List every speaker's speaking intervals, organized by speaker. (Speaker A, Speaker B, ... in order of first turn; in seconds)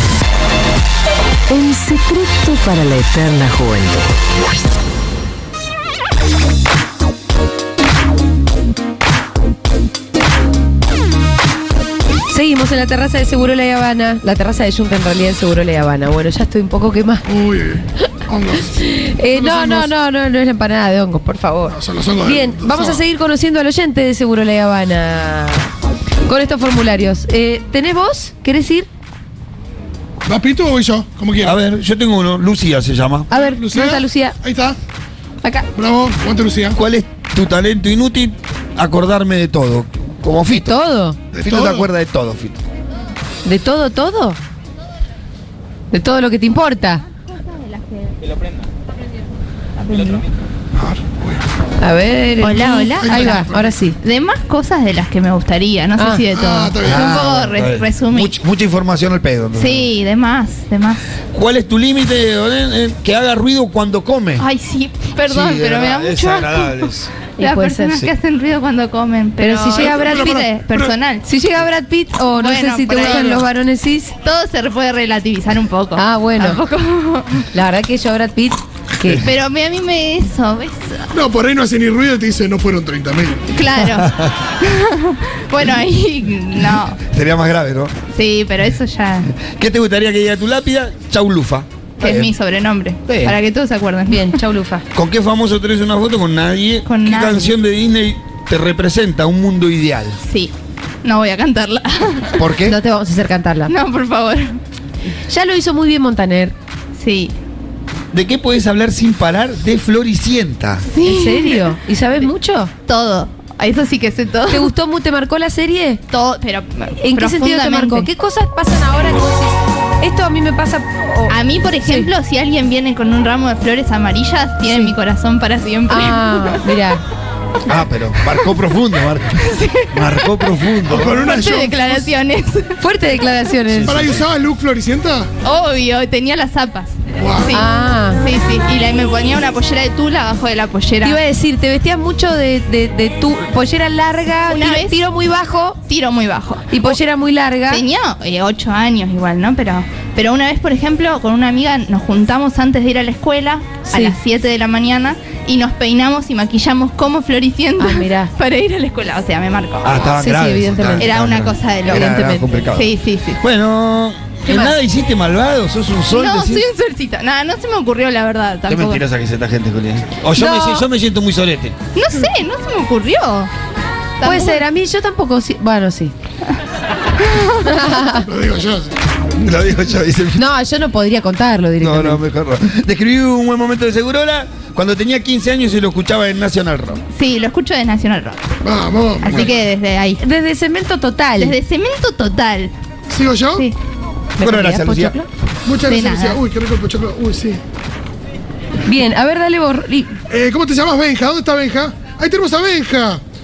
Speaker A: 1.5-4.1
Speaker B: 12.3-17.2, 18.7-25.7, 26.2-28.9, 33.3-34.4, 35.4-35.7, 40.5-41.2, 43.4-44.4, 45.9-47.0, 51.8-54.0, 56.0-56.2, 67.4-68.0, 69.4-70.4, 71.2-74.1, 75.9-76.6, 77.5-79.3, 94.1-94.8, 102.6-103.7, 105.3-106.5, 111.0-112.7, 114.5-116.0, 117.0-122.1, 124.7-124.9, 125.9-127.0, 132.8-134.1, 137.5-138.2, 141.0-145.8, 146.7-147.8, 153.8-154.2, 157.8-158.3, 160.0-161.1, 161.9-162.5, 164.4-164.8, 170.4-170.8, 174.2-176.1, 177.6-178.3, 180.3-182.2, 190.2-191.6, 194.4-195.3, 198.8-200.2
Speaker C: 17.3-18.8, 19.3-19.9, 21.7-23.0, 30.2-31.6, 33.3-34.8, 35.7-36.8, 41.3-41.9, 50.8-51.4, 53.0-53.8, 56.3-57.1, 69.7-71.0, 73.0-73.3, 81.1-83.4, 130.8-132.1, 133.8-135.3, 137.2-137.5, 178.1-178.9, 188.6-189.5, 193.1-193.7, 195.6-197.6, 200.3-203.2
Speaker D: 31.4-33.3, 36.7-40.7, 41.4-42.6, 56.8-59.9, 61.3-64.5, 65.3-67.1, 79.0-79.3, 87.1-87.9, 89.4-92.3, 93.1-93.4, 94.9-100.2, 102.4-102.8, 108.1-110.8, 127.7-131.3, 133.7-134.2, 159.8-166.7, 168.7-171.7, 179.3-180.4, 181.8-187.0, 189.3-189.5, 194.4-195.2
Speaker E: 47.3-48.3, 49.8-50.2, 52.4-58.3, 59.5-61.0, 64.4-71.3, 72.3-73.5, 74.2-77.5, 79.2-81.1, 83.5-87.0, 88.1-89.3, 92.0-94.4, 96.8-97.5, 100.2-100.5, 101.0-102.5, 103.7-104.6, 107.0-107.3, 110.9-112.2, 112.9-114.7, 116.1-118.1, 121.3-126.7, 129.4-132.8, 135.4-141.2, 144.5-145.0, 145.9-147.0, 147.7-160.0, 161.0-163.4, 166.1-169.0, 170.4-170.7, 171.9-173.5, 174.2-174.6, 177.2-177.7, 187.1-188.4, 189.2-190.2, 191.4-192.7, 195.9-196.4